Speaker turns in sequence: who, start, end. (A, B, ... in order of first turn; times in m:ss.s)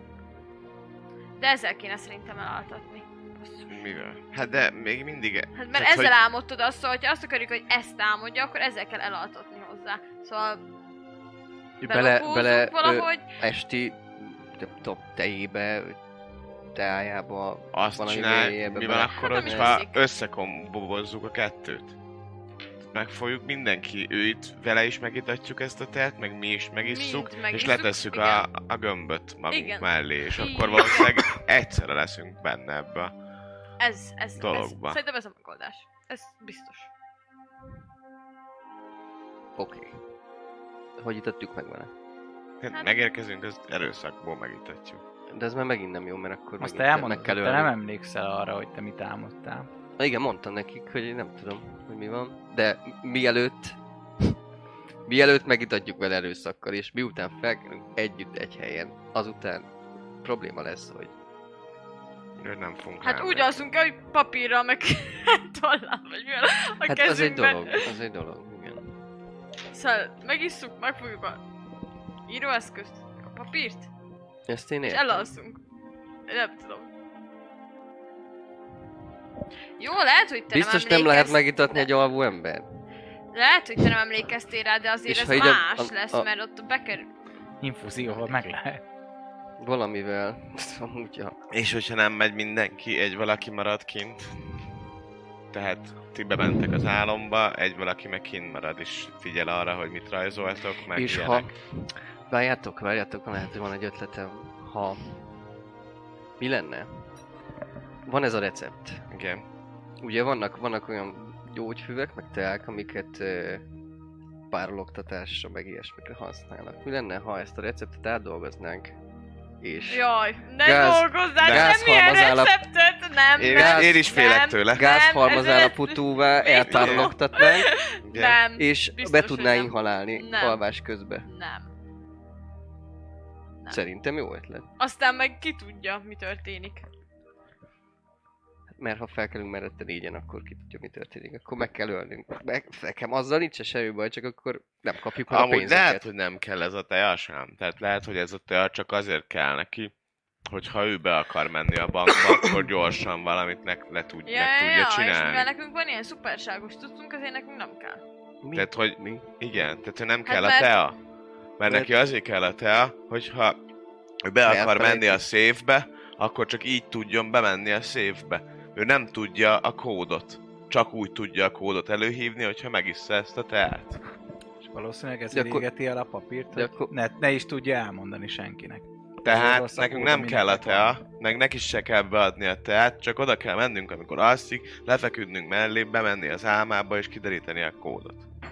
0:01.4-0:03.8 A
0:03.7-0:06.1 B
0:05.5-0:10.6 A
0:11.8-0:16.0 C
0:11.8-0:13.3 A
0:16.7-0:19.8 C
0:17.7-0:22.0 B
0:19.1-0:20.0 A
0:22.8-0:33.1 B
0:26.8-0:28.4 A
0:29.5-0:31.2 A
0:33.8-0:36.9 A
0:34.4-0:35.0 B
0:39.6-0:40.0 C
0:41.0-0:41.9 C
0:42.6-0:45.0 B
0:42.7-0:43.0 A
0:45.3-0:47.7 C
0:46.6-0:49.7 D
0:50.0-0:54.4 C
0:55.1-0:59.7 C
1:00.2-1:01.1 C
1:02.4-1:03.7 B
1:03.0-1:08.0 A
1:06.8-1:08.9 C
1:09.7-1:11.4 A
1:12.3-1:13.9 A
1:14.5-1:15.3 C
1:14.8-1:15.6 A
1:16.3-1:16.9 A
1:19.8-1:21.9 A
1:20.5-1:22.7 C
1:23.3-1:27.1 A
1:25.1-1:26.3 C
1:27.6-1:28.8 D
1:29.6-1:31.4 C
1:31.5-1:34.6 B
1:35.5-1:41.5 B
1:40.9-1:45.2 C
1:46.4-1:47.1 C
1:48.0-1:49.1 C
1:49.1-1:49.4 B
1:50.0-1:53.6 C
1:54.5-1:59.0 C
1:59.6-2:00.1 C
1:59.9-2:10.6 A
2:00.6-2:02.5 C
2:01.4-2:01.8 B
2:03.4-2:04.8 B
2:03.4-2:04.0 C
2:04.7-2:07.7 C
2:06.7-2:07.1 B
2:08.1-2:08.4 B
2:08.6-2:11.2 C
2:11.2-2:11.7 A
2:13.7-2:14.7 C
2:14.8-2:16.8 A
2:18.8-2:26.1 C
2:25.3-2:29.9 B
2:30.5-2:35.5 B
2:34.2-2:38.0 A
2:38.4-2:39.2 C
2:38.5-2:41.0 B
2:40.2-2:40.7 A
2:41.6-2:43.6 B
2:41.7-2:41.9 C
2:44.2-2:54.0 B
2:44.4-2:45.2 C
2:54.6-3:01.0 D
2:55.3-2:55.6 C
2:56.5-2:56.9 C
2:59.2-3:08.2 B